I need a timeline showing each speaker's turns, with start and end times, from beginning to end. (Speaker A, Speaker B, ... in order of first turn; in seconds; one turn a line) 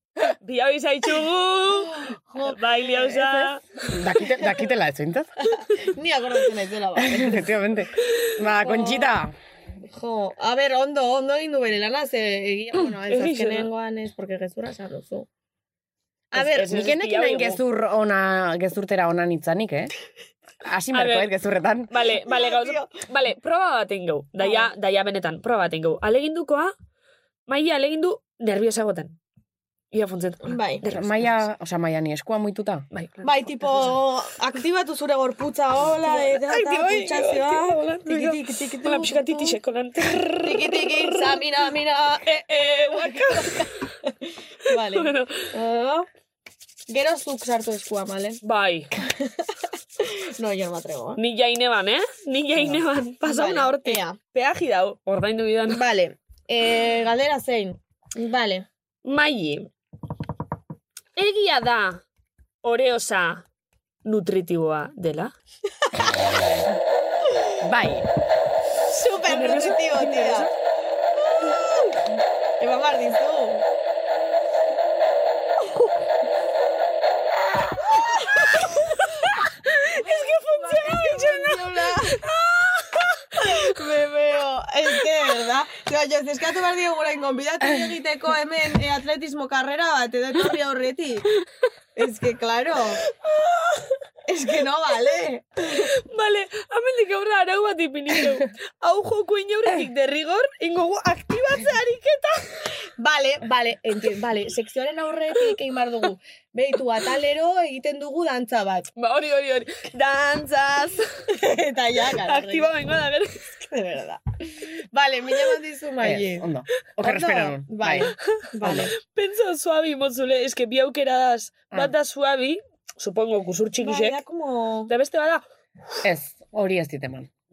Speaker A: 0.4-3.9
Speaker B: 2.1-3.5
Speaker C: 3.9-5.5
Speaker B: 5.5-7.6
Speaker C: 7.0-9.3
Speaker B: 8.6-9.2
Speaker B: 9.9-15.3
Speaker A: 13.1-13.7
Speaker B: 16.3-16.7
Speaker A: 16.4-17.6
Speaker C: 16.4-19.9
Speaker C: 20.6-21.9
Speaker A: 20.9-21.3
Speaker A: 21.9-26.7
Speaker B: 22.2-22.9
Speaker B: 24.4-24.7
Speaker A: 27.5-29.2
Speaker A: 29.9-31.4
Speaker B: 30.4-30.8
Speaker C: 30.8-32.9
Speaker A: 32.9-33.3
Speaker B: 33.2-39.6
Speaker A: 36.0-41.5
Speaker B: 40.4-46.1
Speaker A: 42.2-43.7
Speaker A: 44.7-45.5
Speaker B: 46.9-48.4
Speaker A: 48.4-48.9
Speaker B: 49.0-49.4
Speaker B: 50.0-51.2
Speaker A: 51.2-55.8
Speaker B: 53.2-54.2
Speaker B: 55.7-58.6
Speaker A: 59.0-59.7
Speaker A: 61.1-62.0
Speaker A: 62.6-63.4
Speaker A: 64.0-65.3
Speaker C: 67.6-68.1
Speaker B: 68.9-70.5
Speaker A: 69.3-70.5
Speaker B: 71.2-72.0
Speaker B: 72.6-73.6
Speaker B: 78.0-78.7
Speaker A: 79.8-82.3
Speaker B: 79.9-82.3
Speaker B: 83.3-91.3
Speaker B: 91.9-93.0
Speaker B: 94.2-95.9
Speaker A: 95.7-102.4
Speaker B: 102.8-108.9
Speaker A: 109.0-109.9
Speaker B: 110.0-112.7
Speaker A: 112.2-113.4
Speaker B: 113.6-116.5
Speaker C: 116.0-118.1
Speaker B: 117.0-118.9
Speaker C: 118.6-118.9
Speaker A: 118.6-124.2
Speaker B: 123.8-124.9
Speaker A: 124.9-125.4
Speaker C: 126.0-127.3